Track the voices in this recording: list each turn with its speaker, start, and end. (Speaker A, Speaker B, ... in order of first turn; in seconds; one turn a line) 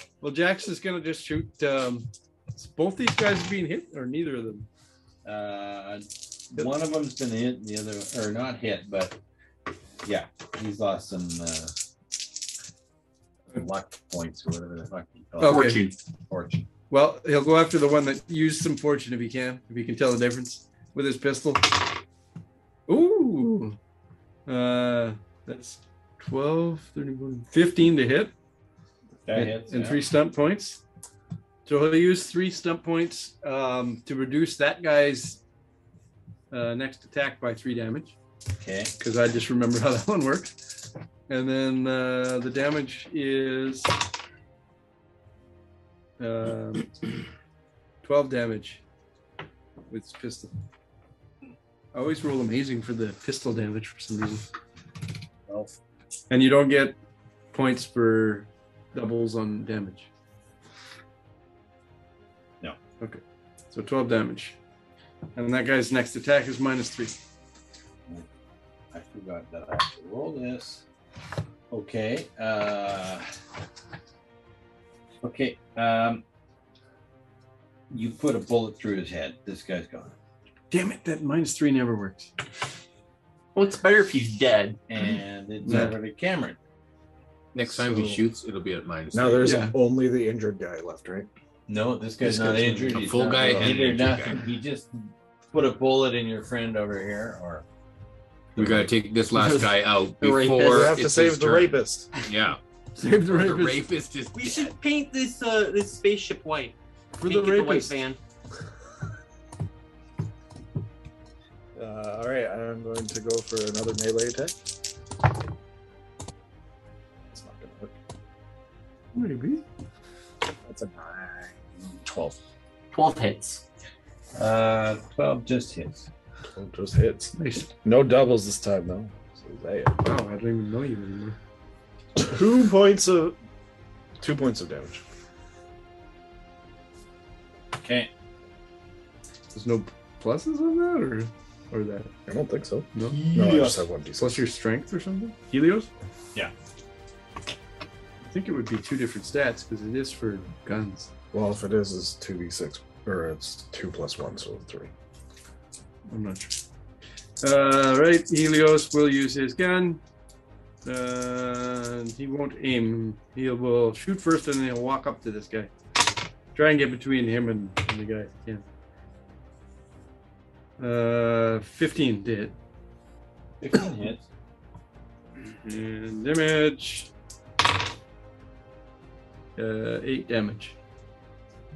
Speaker A: 0.2-4.7
Speaker B: 5.2-9.2
Speaker B: 10.0-11.7
Speaker B: 13.5-16.7
Speaker A: 15.4-15.9
Speaker C: 15.4-15.9
Speaker A: 16.9-21.9
Speaker A: 22.9-23.8
Speaker A: 24.4-28.3
Speaker B: 29.2-30.0
Speaker A: 29.3-30.8
Speaker A: 31.6-35.4
Speaker A: 36.5-38.1
Speaker B: 38.6-38.9
Speaker A: 39.0-40.5
Speaker A: 41.3-44.0
Speaker A: 46.2-47.1
Speaker A: 48.0-48.8
Speaker A: 49.9-50.5
Speaker A: 51.9-54.4
Speaker A: 56.3-57.0
Speaker A: 57.5-60.1
Speaker A: 63.0-64.6
Speaker A: 65.3-67.2
Speaker B: 68.9-70.8
Speaker B: 71.7-73.3
Speaker B: 75.2-76.2
Speaker B: 77.9-80.1
Speaker A: 80.7-82.3
Speaker C: 83.5-84.8
Speaker B: 84.9-86.6
Speaker A: 85.6-86.0
Speaker D: 87.5-89.6
Speaker E: 87.7-88.2
Speaker E: 89.1-91.3
Speaker A: 89.4-89.8
Speaker B: 91.7-97.6
Speaker A: 92.3-92.9
Speaker D: 92.9-94.5
Speaker B: 98.5-98.9
Speaker D: 98.5-104.8
Speaker C: 99.3-101.0
Speaker E: 100.6-102.1
Speaker A: 102.9-103.8
Speaker C: 104.3-108.2
Speaker A: 107.2-108.0
Speaker E: 111.7-114.6
Speaker E: 117.3-117.9
Speaker A: 119.1-119.6
Speaker E: 120.6-122.4
Speaker C: 122.9-123.6
Speaker B: 124.3-126.1
Speaker E: 126.5-130.0
Speaker A: 127.3-127.7
Speaker A: 130.0-131.4
Speaker E: 132.2-133.4
Speaker E: 134.2-135.0
Speaker B: 137.8-138.1
Speaker A: 139.5-142.1
Speaker E: 142.3-144.4
Speaker A: 142.9-143.2
Speaker A: 144.2-145.9
Speaker A: 148.2-151.1
Speaker E: 151.3-154.9
Speaker A: 156.1-156.6
Speaker A: 157.4-160.0
Speaker A: 160.8-165.7
Speaker A: 166.5-168.6
Speaker A: 170.8-172.6
Speaker B: 173.6-174.3
Speaker A: 175.4-177.1
Speaker A: 179.6-180.7